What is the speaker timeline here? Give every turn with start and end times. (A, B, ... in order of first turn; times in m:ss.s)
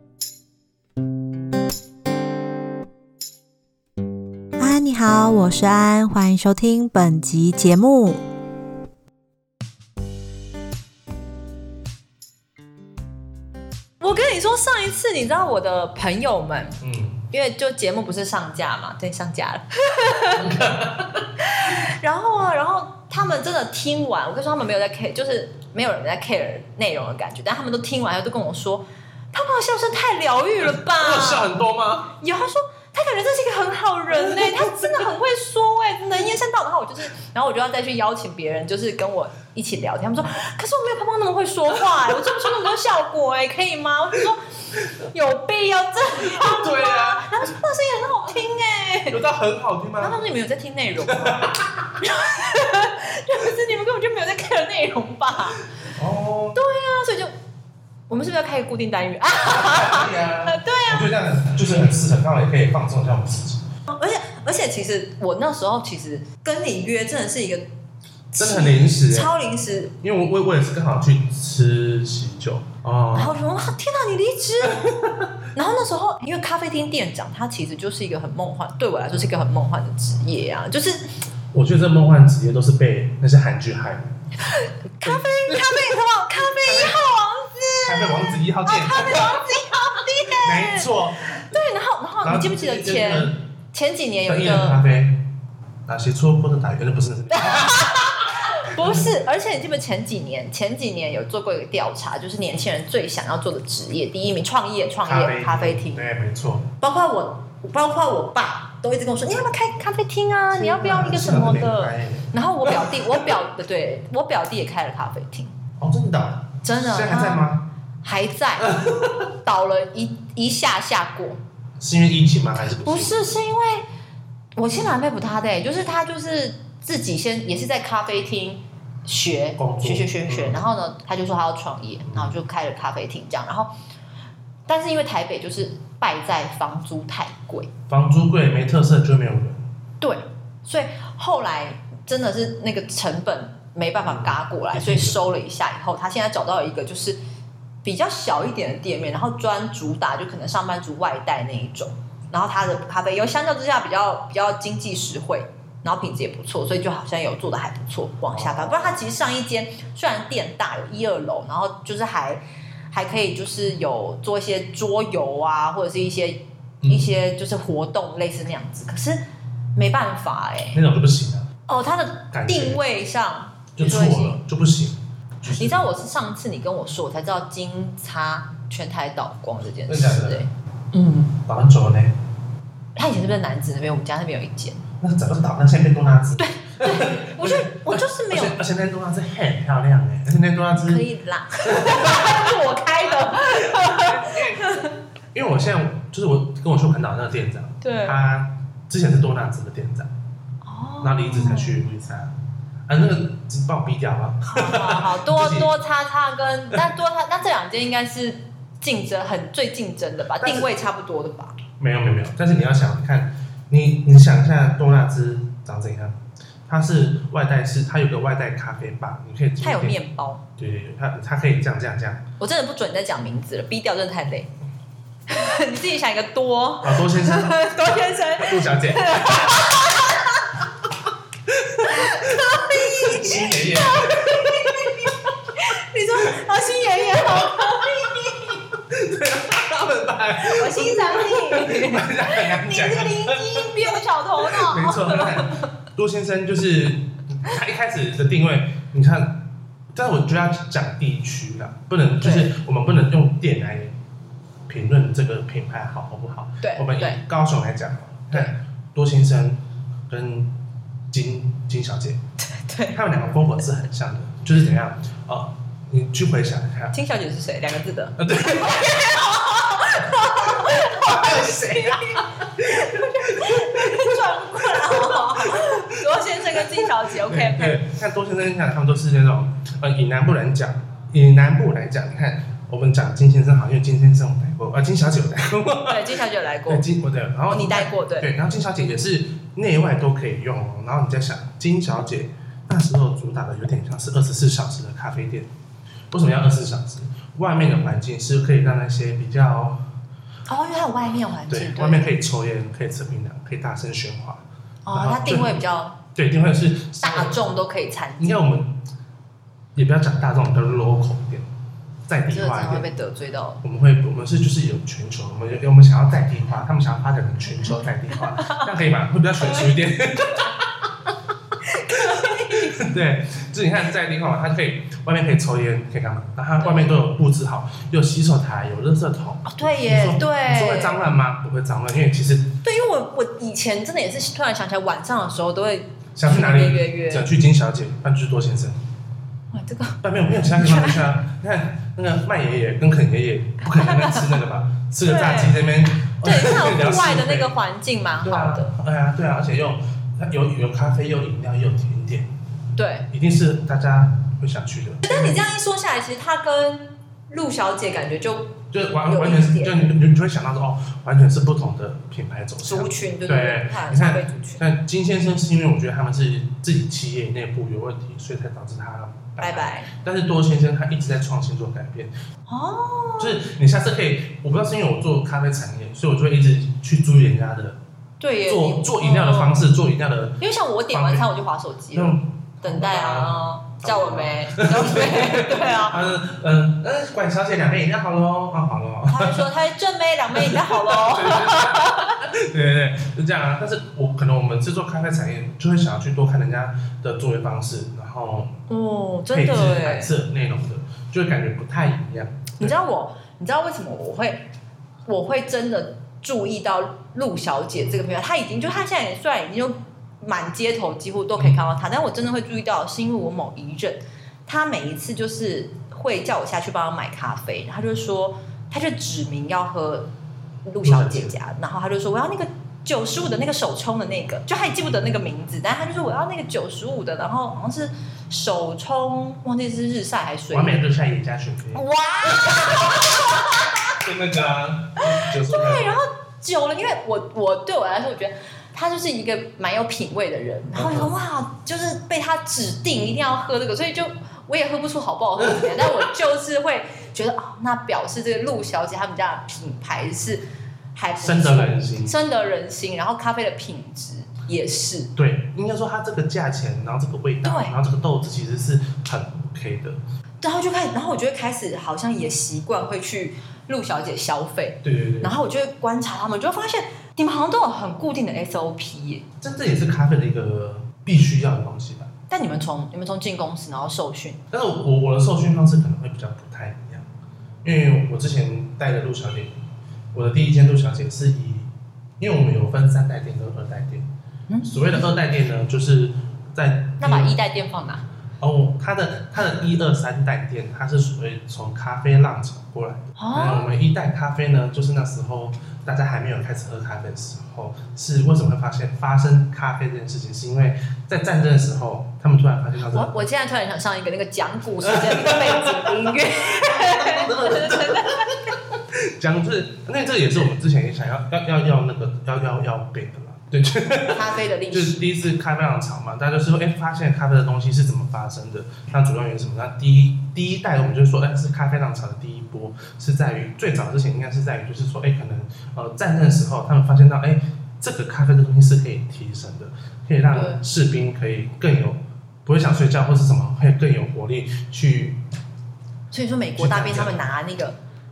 0:04.6-0:08.2 A
0:14.0-0:16.8 B
0:16.8-0:17.2 C
0:17.3-0:20.6 B
0:20.3-0:21.3 C
0:21.4-0:31.5 B
0:30.6-0:32.1 C
0:32.2-0:44.4 B
0:45.0-0:49.2 B
0:46.2-0:47.5 C
0:49.1-0:50.2 C
0:50.0-0:55.6 B
0:51.1-0:51.9 C
0:55.8-0:56.6 C
0:56.5-0:57.3 B
0:58.1-1:01.1 B
0:59.4-1:03.6 C
1:03.9-1:07.7 B
1:08.3-1:09.9 B
1:08.4-1:09.3 C
1:10.0-1:13.4 C
1:13.1-1:15.0 B
1:14.6-1:15.3 C
1:15.5-1:21.1 B
1:21.5-1:24.1 C
1:24.4-1:34.8 B
1:25.0-1:25.8 C
1:26.6-1:27.0 C
1:27.8-1:29.4 C
1:30.3-1:31.4 C
1:32.2-1:33.4 C
1:34.2-1:35.2 C
1:35.9-1:39.1 C
1:37.3-1:46.0 B
1:45.0-1:46.7 C
1:46.8-1:55.5 B
1:50.5-1:53.3 C
1:55.8-1:57.7 C
1:56.6-1:57.4 B
1:58.0-1:58.8 B
1:58.6-1:59.3 C
1:59.4-2:01.4 B
2:01.8-2:03.3 C
2:02.8-2:03.8 B
2:04.6-2:13.7 B
2:09.6-2:10.6 C
2:12.0-2:12.4 C
2:14.7-2:17.7 B
2:17.9-2:19.6 C
2:20.0-2:27.2 B
2:24.0-2:25.2 C
2:27.8-2:50.8 B
2:38.3-2:39.0 C
2:46.8-2:47.1 C
2:50.7-2:51.5 C
2:51.7-2:54.4 B
2:52.3-2:52.8 C
2:53.8-2:55.9 C
2:55.5-3:01.4 B
2:59.9-3:00.4 C
3:01.4-3:02.1 C
3:02.9-3:04.8 B
3:05.0-3:11.0 C
3:06.4-3:08.6 B
3:10.7-3:14.9 B
3:11.6-3:12.5 C
3:13.4-3:20.1 C
3:17.8-3:18.2 B
3:20.6-3:21.8 B
3:21.0-3:22.3 C
3:22.9-3:25.7 C
3:24.5-3:31.6 B
3:30.4-3:30.7 C
3:31.8-3:40.0 C
3:39.6-3:40.4 B
3:40.6-3:42.2 C
3:42.4-3:44.5 B
3:45.3-3:50.5 B
3:46.8-3:49.7 C
3:51.5-3:55.3 C
3:51.8-3:58.6 B
3:57.3-3:57.7 C
3:58.8-4:09.4 C
4:00.4-4:05.7 B
4:09.9-4:13.9 C
4:12.2-4:12.5 B
4:14.7-4:20.5 C
4:16.6-4:17.2 B
4:21.1-4:22.2 C
4:22.4-4:23.0 B
4:22.9-4:26.9 C
4:26.9-4:37.8 B
4:28.2-4:29.2 C
4:30.2-4:34.2 C
4:34.7-4:46.1 C
4:45.9-4:46.8 B
4:46.6-4:55.5 C
4:47.5-4:48.3 B
4:56.1-4:59.8 C
5:00.5-5:02.1 B
5:01.5-5:05.6 C
5:04.8-5:06.0 B
5:06.1-5:07.4 C
5:07.0-5:08.4 B
5:08.2-5:08.8 C
5:09.8-5:11.5 C
5:12.1-5:12.9 C
5:12.3-5:13.6 B
5:13.6-5:20.9 C
5:18.3-5:18.7 B
5:21.6-5:22.8 B
5:21.9-5:32.6 C
5:26.6-5:26.9 B
5:29.4-5:31.2 B
5:32.6-5:37.2 B
5:36.1-5:38.8 C
5:39.5-5:41.0 B
5:40.0-5:47.5 C
5:43.6-5:44.4 B
5:45.0-5:45.7 B
5:46.2-5:48.7 B
5:48.2-5:52.3 C
5:52.8-5:53.1 B
5:53.1-5:55.4 C
5:55.0-5:59.8 B
5:58.7-6:12.1 C
6:02.6-6:04.6 B
6:09.4-6:09.9 B
6:12.5-6:13.4 B
6:13.2-6:17.8 C
6:18.2-6:19.6 B
6:18.4-6:21.3 C
6:20.4-6:26.1 B
6:21.9-6:29.5 C
6:29.1-6:32.2 B
6:30.3-6:38.6 C
6:38.7-6:40.1 B
6:39.3-6:42.7 C
6:42.6-6:44.4 B
6:45.0-7:00.1 B
7:00.6-7:10.8 B
7:00.8-7:01.4 C
7:10.5-7:13.1 C
7:11.7-7:14.0 B
7:13.9-7:15.9 C
7:15.0-7:35.1 B
7:20.7-7:21.1 C
7:25.4-7:26.1 C
7:31.2-7:32.2 C
7:35.2-7:40.0 C
7:37.4-7:37.7 B
7:40.4-7:49.2 B
7:44.8-7:45.3 C
7:49.4-7:52.1 C
7:52.3-7:54.4 B
7:54.5-7:57.0 C
7:57.6-8:01.7 C
8:02.2-8:04.1 C
8:04.5-8:05.1 B
8:04.6-8:07.4 C
8:07.0-8:08.0 B
8:08.4-8:23.1 C
8:13.2-8:13.7 B
8:22.8-8:28.5 B
8:24.8-8:55.2 C
8:34.1-8:35.0 B
8:50.3-8:50.6 B
8:56.1-8:57.8 B
8:56.6-8:57.2 C